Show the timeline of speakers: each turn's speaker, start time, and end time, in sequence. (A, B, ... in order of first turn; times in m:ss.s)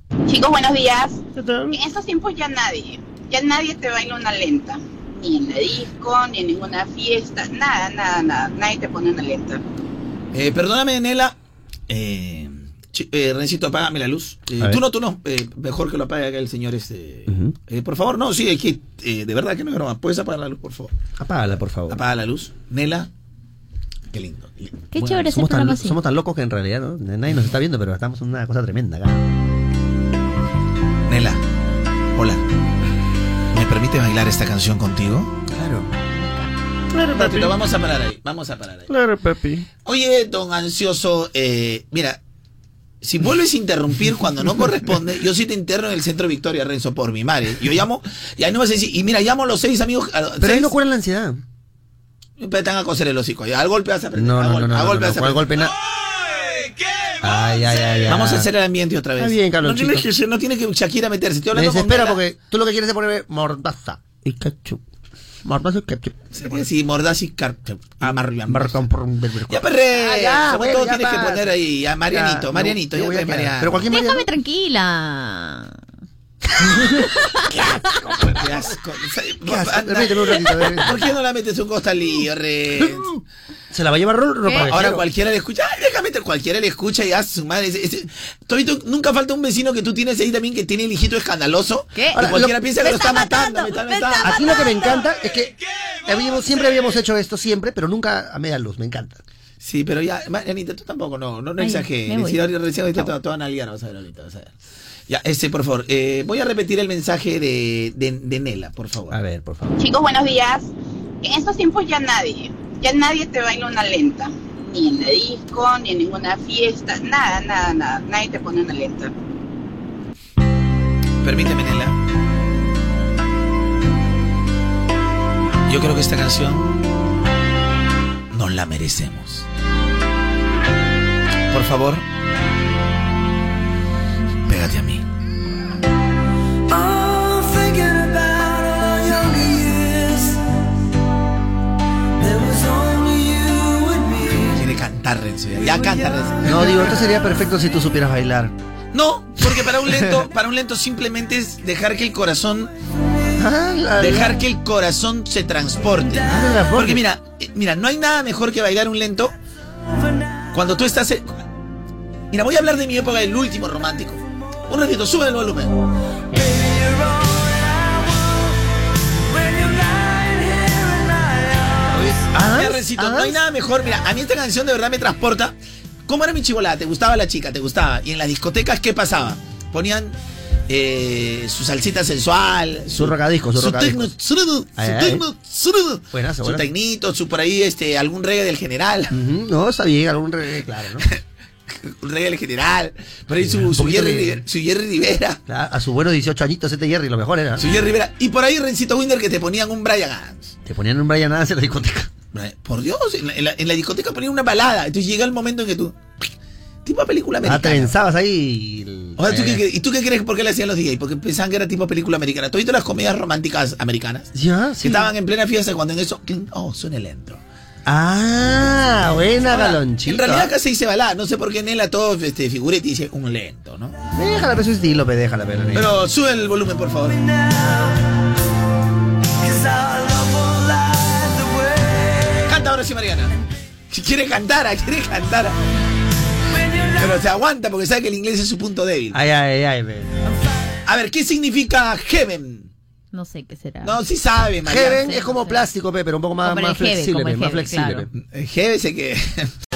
0:00.3-0:09.6 A
0:01.4-0:01.7 B
0:10.3-0:11.4 C
0:11.9-0:20.9 C
0:17.3-0:17.5 B
0:21.2-0:22.0 B
0:21.9-0:23.1 C
0:24.1-0:24.9 C
0:24.9-0:26.0 D
0:24.9-0:29.3 B
0:31.1-0:31.4 C
0:32.2-0:32.4 C
0:33.5-0:35.3 C
0:35.5-0:35.9 B
0:36.9-0:37.6 B
0:37.1-0:38.9 C
0:38.9-0:39.7 B
0:39.8-0:42.2 C
0:43.0-0:50.7 C
0:50.4-0:51.4 B
0:52.4-0:55.5 C
0:54.1-0:55.7 B
0:57.2-0:58.5 B
0:58.1-1:02.2 C
0:59.2-1:00.0 B
1:01.5-1:04.8 B
1:05.4-1:06.2 B
1:06.3-1:08.8 C
1:08.0-1:11.5 B
1:09.5-1:13.9 C
1:12.1-1:14.2 B
1:13.9-1:15.8 D
1:17.6-1:23.1 C
1:18.3-1:18.6 B
1:19.4-1:21.0 B
1:22.8-1:23.1 B
1:23.7-1:25.0 B
1:24.6-1:34.4 C
1:31.9-1:35.0 D
1:32.1-1:32.6 B
1:34.2-1:35.5 B
1:36.0-1:39.2 B
1:39.6-1:44.5 C
1:41.6-1:42.4 D
1:45.1-1:49.2 C
1:49.1-1:49.7 B
1:49.8-1:50.7 A
1:51.2-1:59.1 A
2:01.2-2:01.9 C
2:05.7-2:06.7 C
2:08.3-2:09.4 C
2:11.5-2:12.0 C
2:14.5-2:15.0 C
2:16.7-2:20.4 E
2:22.2-2:24.6 E
2:24.5-2:26.6 C
2:25.8-2:26.2 E
2:26.4-2:28.5 B
2:28.9-2:32.7 C
2:33.4-2:34.4 B
2:34.0-2:39.3 C
2:36.2-2:37.0 B
2:40.5-2:41.4 C
2:42.3-2:45.7 C
2:46.4-2:48.3 E
2:49.3-2:51.8 E
2:51.9-2:53.4 B
2:52.4-2:55.5 C
2:56.1-3:00.2 C
3:00.7-3:09.1 C
3:02.9-3:04.1 B
3:04.8-3:05.2 B
3:06.1-3:06.6 B
3:09.1-3:11.1 B
3:11.7-3:15.4 C
3:13.4-3:14.4 B
3:15.5-3:17.6 B
3:17.6-3:20.5 C
3:20.6-3:22.1 B
3:22.3-3:26.0 C
3:26.8-3:27.9 C
3:27.4-3:29.6 B
3:29.2-3:34.3 C
3:34.3-3:35.1 B
3:34.8-3:37.4 C
3:37.8-3:40.5 B
3:39.5-3:43.9 C
3:44.1-3:45.9 B
3:45.7-3:47.2 C
3:47.3-3:48.0 E
3:49.4-3:52.3 E
3:52.4-3:53.3 C
3:53.9-3:55.6 C
3:57.0-3:59.2 C
3:59.1-4:00.1 B
4:00.8-4:02.7 C
4:03.1-4:03.9 D
4:03.8-4:05.0 C
4:04.6-4:08.1 B
4:04.8-4:05.6 D
4:06.4-4:08.0 D
4:08.1-4:09.5 C